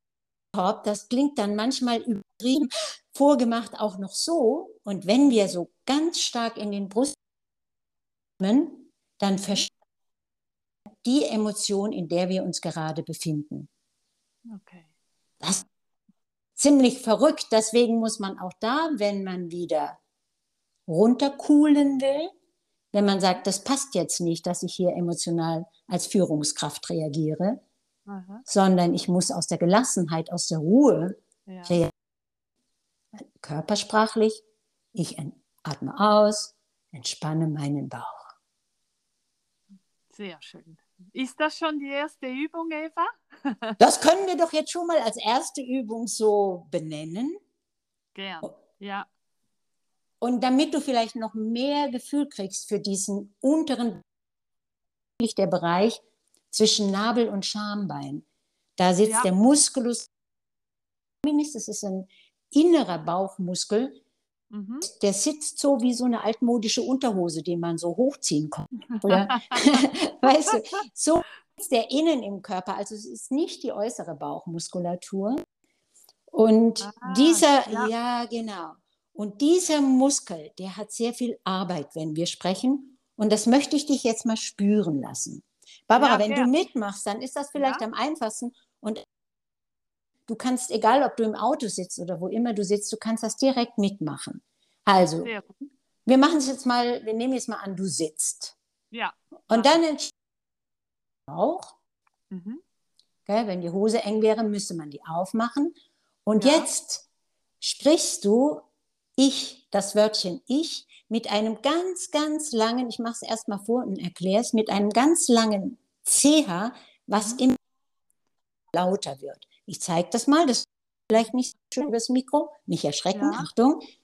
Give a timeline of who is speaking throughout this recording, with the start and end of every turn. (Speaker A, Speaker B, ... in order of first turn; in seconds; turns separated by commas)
Speaker A: 0.5-7.2, Speaker A: 8.4-9.7, Speaker A: 11.0-13.7, Speaker B: 14.5-14.9, Speaker A: 16.6-20.0, Speaker A: 20.9-22.3, Speaker A: 22.9-27.6, Speaker B: 28.1-28.4, Speaker A: 28.5-31.9, Speaker B: 31.5-31.8, Speaker A: 33.2-34.4, Speaker A: 34.9-38.3, Speaker B: 40.1-43.8, Speaker A: 43.8-47.4, Speaker B: 48.1-49.1, Speaker A: 50.2-54.0, Speaker A: 55.2-58.2, Speaker A: 58.8-60.1, Speaker A: 61.2-64.0, Speaker B: 64.5-64.9, Speaker A: 64.8-75.4, Speaker B: 69.0-70.6, Speaker A: 76.3-89.0, Speaker B: 76.8-77.9, Speaker B: 86.0-86.5, Speaker B: 87.5-87.8, Speaker A: 90.3-95.3, Speaker B: 95.2-95.5, Speaker A: 96.1-98.6, Speaker B: 98.9-99.8, Speaker A: 99.5-100.1, Speaker A: 101.3-101.7, Speaker B: 102.3-102.6, Speaker A: 103.3-107.0, Speaker B: 106.4-106.7, Speaker A: 107.6-108.7, Speaker A: 109.2-117.6, Speaker B: 117.2-117.4, Speaker A: 118.7-123.8, Speaker B: 123.1-123.5